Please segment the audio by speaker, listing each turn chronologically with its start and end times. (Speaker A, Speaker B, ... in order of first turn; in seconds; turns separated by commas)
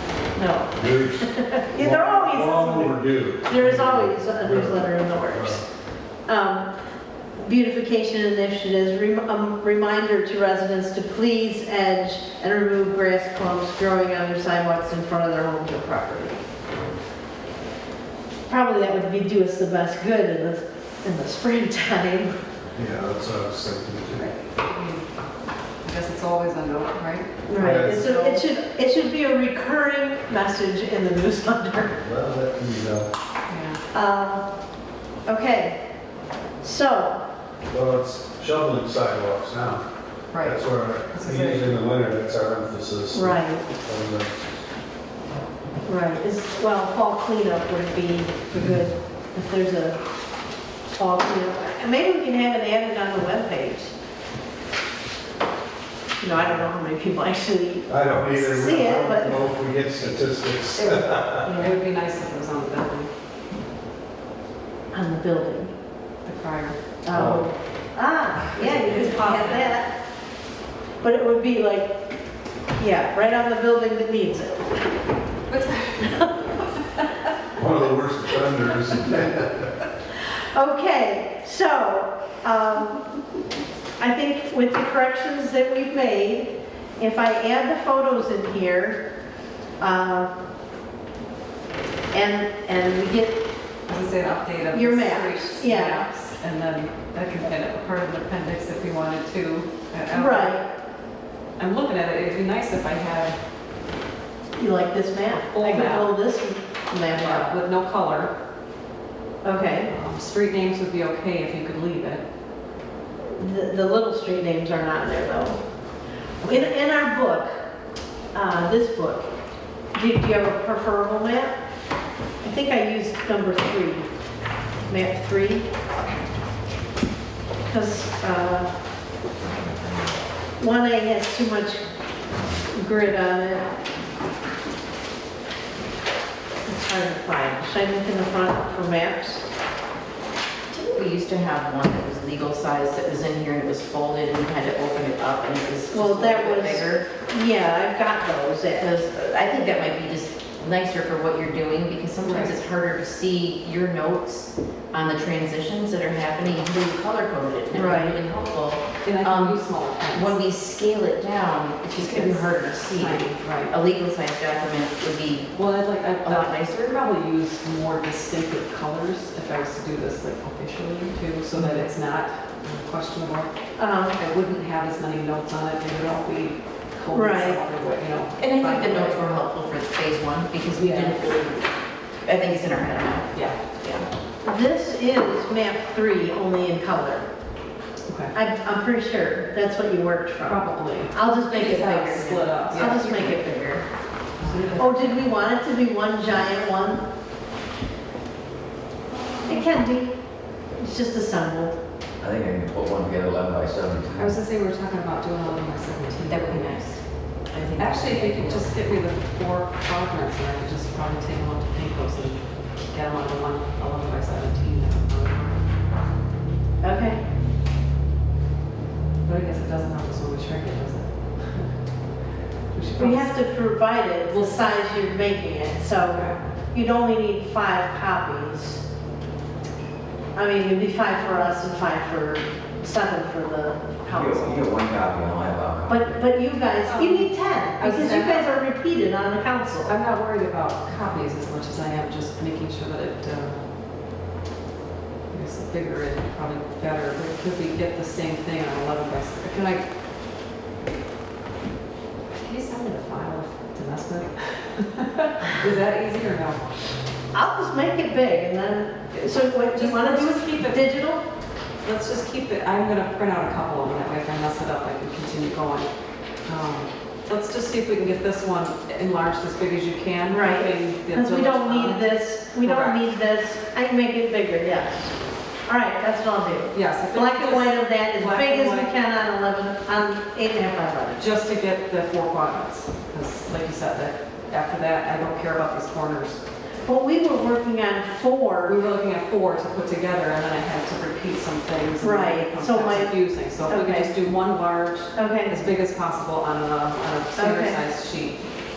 Speaker A: 0.3-5.6, Speaker B: 0.8-5.6, Speaker A: 6.3-6.7, Speaker A: 7.4-16.4, Speaker A: 18.5-22.4, Speaker B: 22.8-24.3, Speaker C: 24.2-25.1, Speaker C: 25.8-28.4, Speaker A: 27.5-32.0, Speaker B: 27.6-28.1, Speaker B: 31.9-33.1, Speaker C: 33.5-33.8, Speaker A: 33.9-34.4, Speaker A: 35.2-35.8, Speaker A: 36.6-37.2, Speaker B: 37.7-39.8, Speaker C: 40.3-41.7, Speaker B: 40.3-44.4, Speaker A: 43.1-43.6, Speaker A: 45.9-50.0, Speaker A: 50.9-53.9, Speaker A: 56.2-59.5, Speaker B: 56.4-56.7, Speaker B: 57.9-61.5, Speaker C: 60.8-63.1, Speaker A: 61.4-61.7, Speaker A: 64.9-65.7, Speaker C: 66.2-66.8, Speaker A: 67.0-69.9, Speaker B: 67.1-67.5, Speaker D: 68.6-69.7, Speaker C: 68.7-69.4, Speaker A: 71.0-72.0, Speaker A: 72.8-74.8, Speaker C: 75.5-76.3, Speaker A: 76.0-76.3, Speaker B: 77.6-79.7, Speaker A: 80.5-83.1, Speaker A: 84.0-89.0, Speaker A: 89.8-90.3, Speaker A: 92.1-93.4, Speaker C: 93.9-100.6, Speaker A: 94.7-96.1, Speaker A: 100.1-100.6, Speaker C: 101.6-103.4, Speaker A: 104.5-107.5, Speaker C: 105.3-106.1, Speaker C: 107.1-108.3, Speaker A: 109.4-109.9, Speaker C: 109.9-112.2, Speaker A: 113.3-115.6, Speaker A: 116.4-117.5, Speaker A: 118.3-119.3, Speaker A: 119.9-121.5, Speaker A: 122.4-124.1, Speaker A: 124.9-125.7, Speaker A: 127.7-128.7, Speaker A: 130.6-131.8, Speaker A: 132.7-133.7, Speaker A: 136.7-139.4, Speaker D: 140.7-147.0, Speaker A: 145.9-148.9, Speaker D: 148.8-165.5, Speaker C: 152.2-152.6, Speaker A: 157.7-158.2, Speaker C: 159.0-160.4, Speaker C: 161.9-163.7, Speaker C: 165.5-173.5, Speaker D: 166.2-166.9, Speaker D: 171.5-171.8, Speaker A: 173.8-174.2, Speaker C: 174.2-179.4, Speaker A: 177.1-177.6, Speaker D: 178.4-184.1, Speaker C: 180.7-181.6, Speaker C: 183.3-183.6, Speaker A: 184.4-187.2, Speaker C: 188.1-188.3, Speaker A: 188.3-193.8, Speaker C: 190.4-193.3, Speaker D: 192.8-193.5, Speaker C: 194.4-195.3, Speaker D: 194.5-194.7, Speaker A: 194.8-197.0, Speaker C: 199.2-199.6, Speaker A: 199.5-200.2, Speaker A: 200.8-201.8, Speaker E: 202.2-204.4, Speaker C: 204.2-207.0, Speaker D: 206.3-208.7, Speaker C: 207.8-215.6, Speaker A: 216.8-217.2, Speaker C: 219.2-221.7, Speaker C: 222.7-223.6, Speaker A: 223.0-228.8, Speaker C: 224.3-224.8, Speaker A: 230.3-234.7, Speaker E: 234.0-236.0, Speaker A: 235.9-239.9, Speaker C: 236.8-238.5, Speaker C: 239.8-243.6, Speaker C: 245.3-249.8, Speaker C: 252.4-256.6, Speaker A: 257.3-261.2, Speaker C: 259.7-260.9, Speaker C: 261.8-265.9, Speaker C: 266.4-273.0, Speaker A: 270.3-275.1, Speaker A: 275.6-281.2, Speaker C: 276.7-278.9, Speaker C: 281.2-286.4, Speaker A: 286.8-288.8, Speaker C: 288.7-298.5, Speaker A: 292.0-294.1, Speaker A: 295.1-295.5, Speaker A: 297.3-297.8